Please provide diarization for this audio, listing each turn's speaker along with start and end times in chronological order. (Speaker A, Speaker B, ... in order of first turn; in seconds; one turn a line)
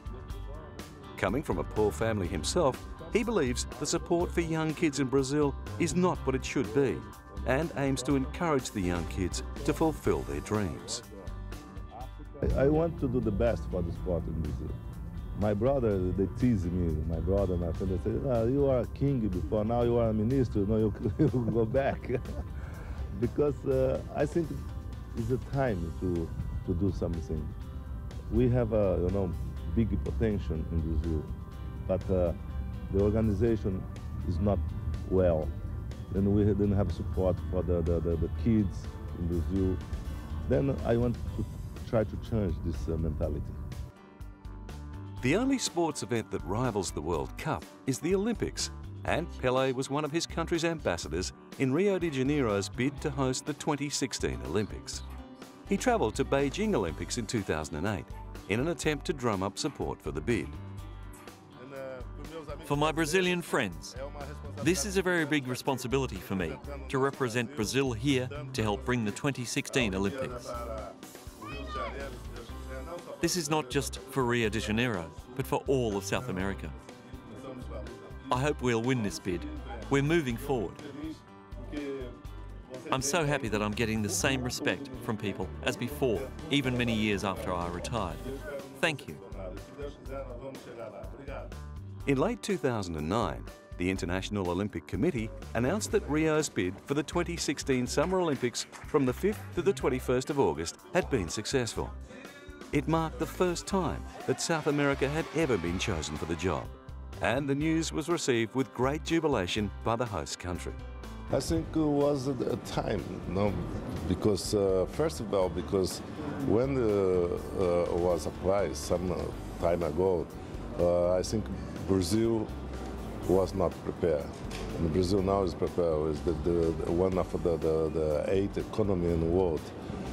Speaker A: 1.1-11.0
Speaker B: 12.4-14.8
Speaker B: 15.4-22.4
Speaker B: 23.1-27.6
Speaker B: 28.3-31.3
Speaker B: 31.9-32.4
Speaker B: 32.9-35.5
Speaker B: 36.1-39.8
Speaker B: 40.5-43.6
Speaker A: 45.2-55.0
Speaker A: 55.7-60.6
Speaker B: 61.6-75.4
Speaker C: 62.7-64.0
Speaker C: 64.6-70.5
Speaker C: 73.2-76.8
Speaker B: 76.1-82.2
Speaker C: 78.3-80.8
Speaker B: 82.7-83.7
Speaker C: 82.9-89.2
Speaker B: 84.4-85.0
Speaker B: 85.6-91.5
Speaker A: 92.1-102.0
Speaker A: 102.7-110.8
Speaker B: 111.3-122.5
Speaker B: 123.2-129.7